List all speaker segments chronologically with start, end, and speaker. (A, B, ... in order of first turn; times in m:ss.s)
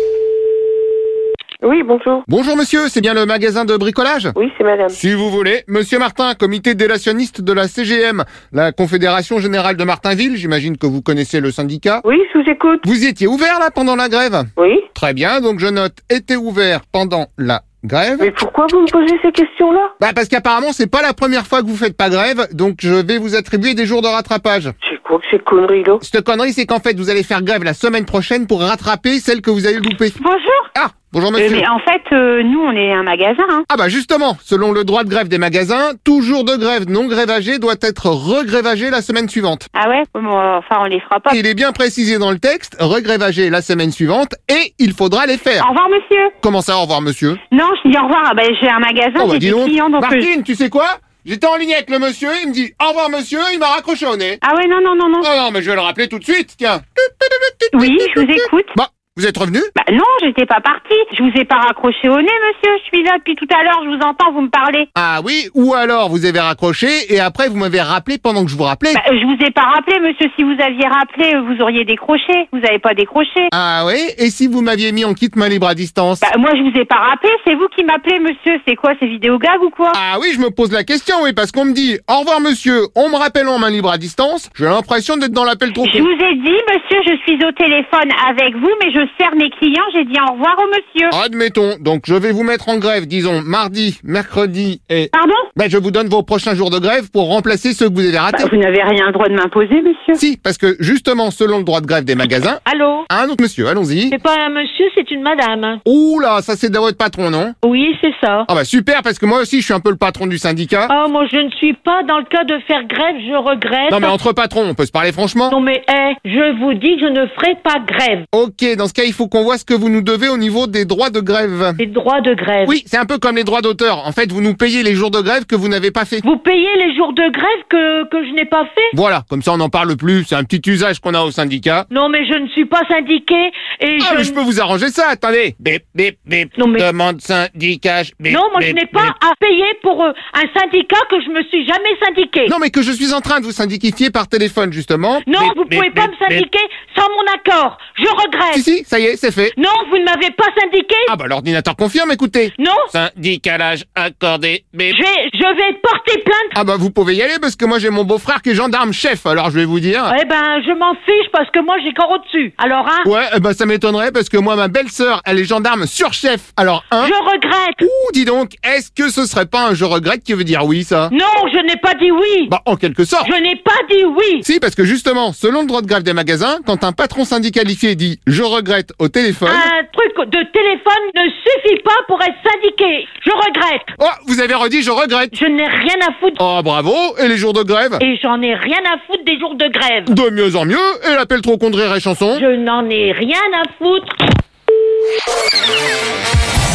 0:01.6-0:02.2 A
0:02.3-0:04.3 B
0:04.4-0:05.0 A
0:04.9-0:12.0 B
0:12.0-0:12.8 A
0:12.8-0:18.3 B
0:14.6-0:14.8 A
0:18.2-0:19.9 A
0:20.0-0:24.7 B
0:24.8-0:26.0 A
0:26.0-0:30.2 B
0:30.2-0:30.7 C
0:30.8-0:31.7 B
0:31.4-0:33.7 C
0:33.7-0:39.7 B
0:39.7-0:41.4 C
0:41.3-0:45.7 B
0:45.6-0:46.3 C
0:46.4-0:47.4 B
0:47.5-0:50.3 C
0:49.2-0:54.4 B
0:54.4-0:55.3 C
0:55.2-0:59.7 B
0:57.7-0:58.8 C
0:59.8-1:04.9 C
1:05.0-1:09.0 B
1:08.9-1:13.5 C
1:13.5-1:16.2 B
1:16.2-1:20.0 C
1:19.9-1:26.1 B
1:25.8-1:31.1 C
1:31.1-1:38.5 B
1:35.1-1:35.5 C
1:38.3-1:40.2 C
1:40.2-1:44.2 B
1:42.6-1:43.1 D
1:44.1-1:45.8 D
1:45.8-1:47.6 B
1:47.6-1:48.5 D
1:48.5-1:50.9 B
1:50.9-1:54.2 D
1:53.9-1:55.6 B
1:55.5-1:58.2 D
1:58.3-2:01.8 B
2:01.8-2:02.8 D
2:02.6-2:06.2 B
2:06.2-2:08.9 D
2:08.9-2:11.8 B
2:11.9-2:14.4 D
2:14.0-2:19.2 B
2:16.6-2:16.9 D
2:18.3-2:22.6 D
2:22.4-2:26.5 B
2:25.2-2:28.7 D
2:28.5-2:29.6 B
2:29.6-2:31.2 D
2:31.1-2:35.0 B
2:32.6-2:32.9 D
2:34.9-2:36.6 D
2:36.5-2:40.2 B
2:40.1-2:43.1 D
2:43.0-2:47.1 B
2:47.0-2:47.8 D
2:47.8-2:51.1 B
2:51.1-2:52.5 D
2:52.5-2:53.3 B
2:53.2-2:54.5 D
2:54.4-2:59.7 B
2:59.5-3:03.9 D
3:04.0-3:05.3 B
3:05.3-3:06.4 D
3:06.4-3:08.0 B
3:08.0-3:10.2 D
3:10.1-3:12.5 B
3:12.3-3:14.2 D